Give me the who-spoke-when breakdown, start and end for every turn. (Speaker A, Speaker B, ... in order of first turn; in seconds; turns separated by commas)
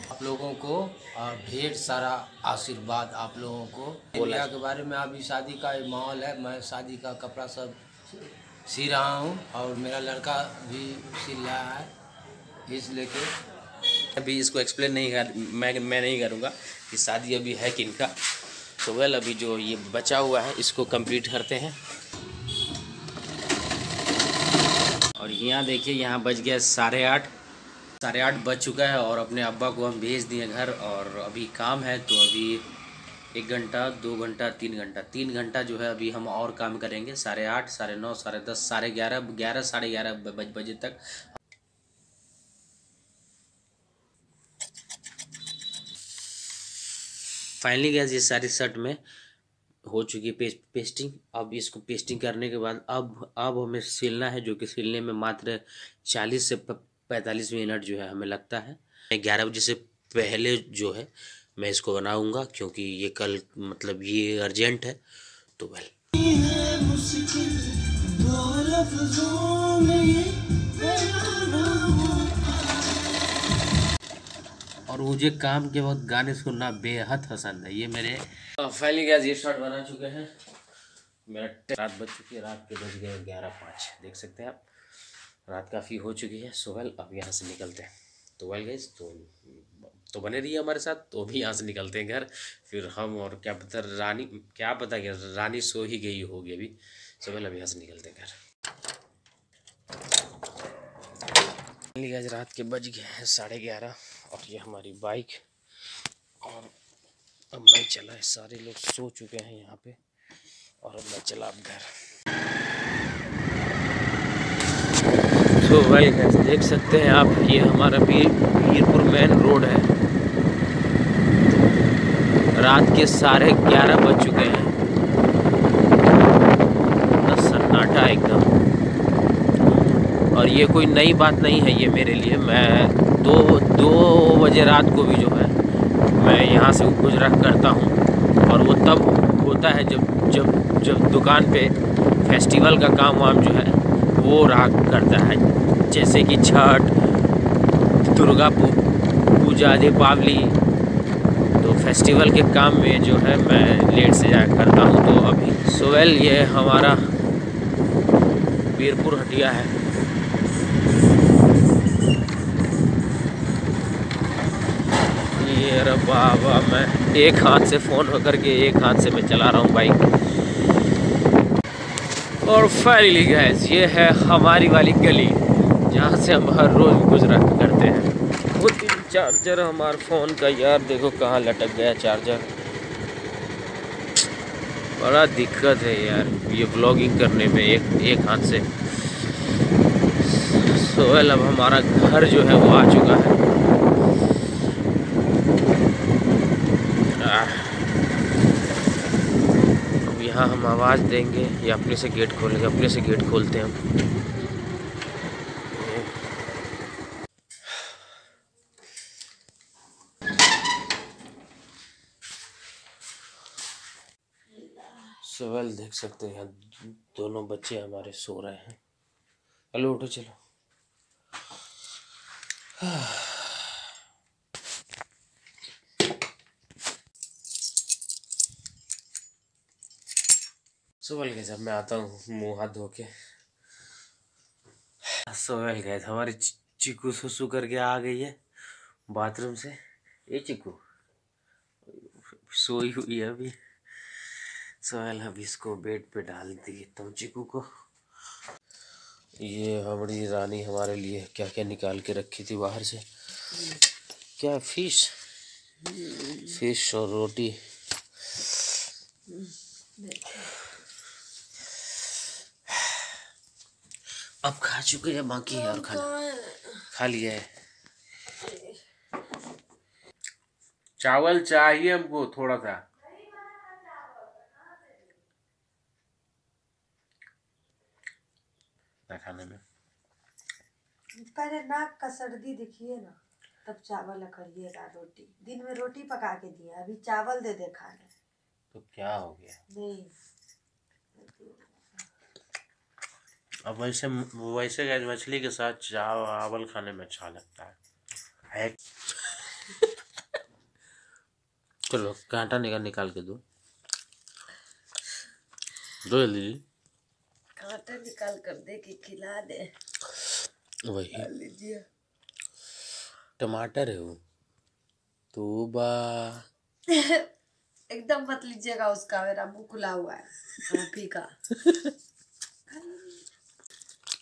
Speaker A: 0.1-7.8, Speaker B: 4.1-4.5, Speaker A: 8.7-11.9, Speaker A: 12.7-13.3, Speaker B: 14.1-18.1, Speaker B: 18.8-21.8, Speaker B: 25.1-27.3, Speaker B: 28.0-32.6, Speaker B: 33.3-41.0, Speaker B: 47.6-49.0, Speaker B: 49.9-65.0, Speaker B: 65.6-72.5, Speaker B: 74.9-80.3, Speaker B: 81.3-84.6, Speaker B: 85.5-98.3, Speaker B: 101.9-105.4, Speaker B: 106.4-106.7, Speaker B: 107.5-110.0, Speaker B: 110.8-111.8, Speaker B: 115.6-119.9, Speaker B: 122.5-124.7, Speaker B: 127.2-128.5, Speaker B: 129.7-135.6, Speaker B: 136.2-146.9, Speaker B: 148.0-150.6, Speaker B: 151.6-157.1, Speaker B: 158.7-159.7, Speaker B: 165.3-170.0, Speaker B: 172.4-182.5, Speaker B: 185.0-189.2, Speaker B: 190.2-193.4, Speaker B: 197.2-197.8, Speaker B: 200.0-203.8, Speaker B: 205.7-206.1, Speaker B: 215.2-218.8, Speaker B: 219.7-220.4, Speaker B: 222.8-223.7, Speaker B: 231.0-233.1, Speaker B: 235.2-238.3, Speaker B: 239.1-240.8, Speaker B: 241.9-243.5, Speaker B: 244.8-247.7, Speaker B: 249.4-253.8, Speaker B: 254.4-255.1, Speaker C: 255.9-256.5, Speaker B: 256.3-257.6, Speaker C: 259.3-260.5, Speaker B: 264.4-266.1, Speaker C: 265.5-266.8, Speaker B: 266.9-267.5, Speaker C: 268.4-268.8, Speaker B: 271.0-272.8, Speaker C: 273.1-275.0, Speaker B: 279.1-279.6, Speaker C: 281.1-288.1, Speaker B: 288.7-289.6, Speaker C: 289.7-290.1, Speaker C: 291.2-291.9, Speaker B: 293.6-297.8, Speaker B: 298.5-298.8, Speaker B: 301.9-303.4, Speaker B: 306.0-306.6, Speaker C: 307.6-309.7, Speaker B: 310.9-311.3, Speaker C: 311.1-311.9, Speaker B: 313.4-314.2, Speaker B: 315.3-316.4, Speaker C: 316.9-317.3, Speaker C: 317.9-321.3, Speaker C: 322.7-323.2